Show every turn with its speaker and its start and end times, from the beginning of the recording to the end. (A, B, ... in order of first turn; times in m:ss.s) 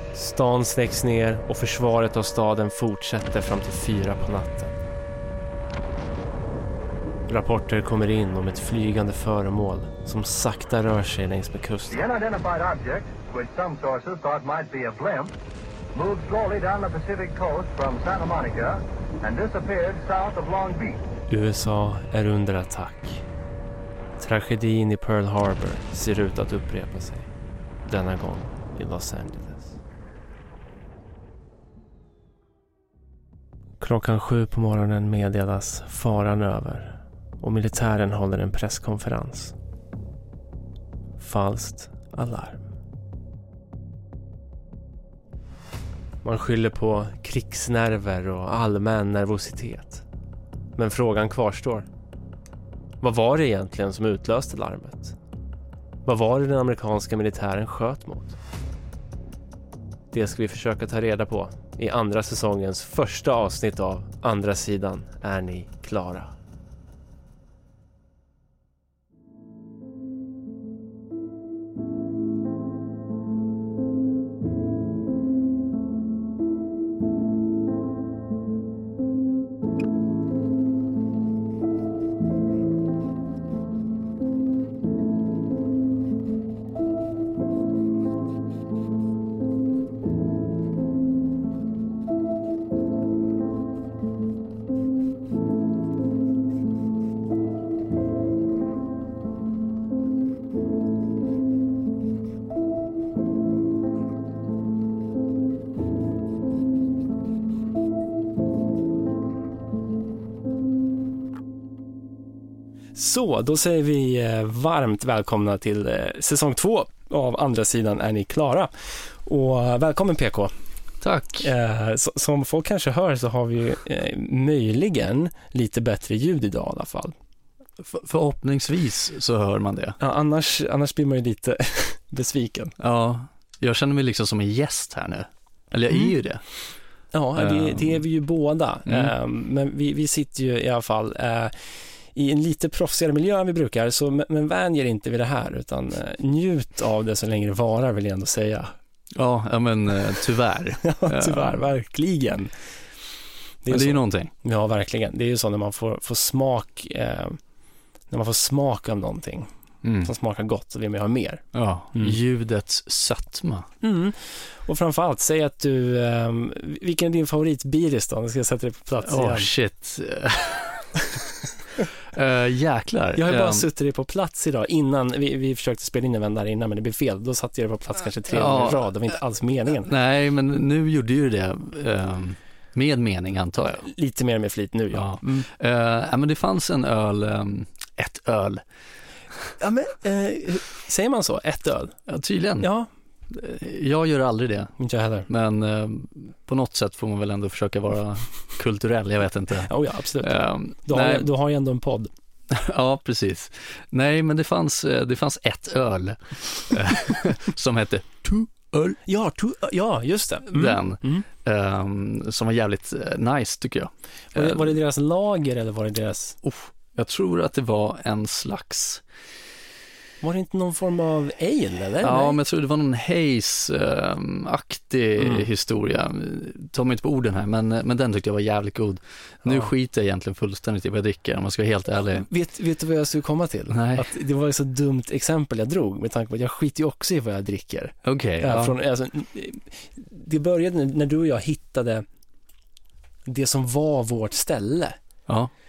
0:00.1-0:04.7 A
0:07.3-0:12.0 A
0:11.9-0:15.3 B
0:15.9-0:21.0 B
0:21.3-0:23.2 A
0:24.2-0:27.3 A
0:27.9-0:29.7 A
0:33.8-0:39.5 A
0:41.2-0:42.6 A
0:46.2-0:50.0 A
0:50.8-0:51.9 A
0:53.0-0:55.2 A
0:56.0-0:58.4 A
1:00.1-1:06.3 A
1:52.9-2:00.5 A
2:01.0-2:01.5 C
2:01.4-2:07.1 A
2:07.8-2:10.0 C
2:10.0-2:12.7 A
2:12.8-2:16.4 C
2:15.9-2:16.1 A
2:17.1-2:21.5 A
2:17.4-2:18.0 C
2:18.9-2:19.1 C
2:22.1-2:28.7 A
2:29.1-2:31.6 C
2:30.8-2:32.5 A
2:33.6-2:37.4 A
2:33.7-2:34.3 C
2:38.1-2:39.5 A
2:39.8-2:40.1 C
2:40.0-2:42.2 A
2:41.5-2:43.7 C
2:43.8-2:49.5 A
2:49.0-2:50.9 C
2:52.0-2:53.6 C
2:53.2-2:59.9 A
2:58.3-2:59.1 C
2:59.8-3:03.8 C
3:03.8-3:05.4 A
3:04.9-3:08.6 C
3:09.6-3:12.0 A
3:12.1-3:12.7 C
3:12.6-3:12.9 A
3:13.3-3:14.7 C
3:14.8-3:15.3 A
3:15.3-3:21.3 C
3:19.7-3:22.1 A
3:22.5-3:29.0 C
3:29.0-3:31.2 A
3:30.5-3:34.6 C
3:34.3-3:36.4 A
3:36.4-3:39.0 C
3:40.2-3:42.4 A
3:42.0-3:52.3 C
3:45.2-3:45.5 A
3:49.4-3:49.7 A
3:52.1-4:02.0 A
3:53.7-3:54.1 C
3:58.0-3:58.7 C
4:03.2-4:05.0 A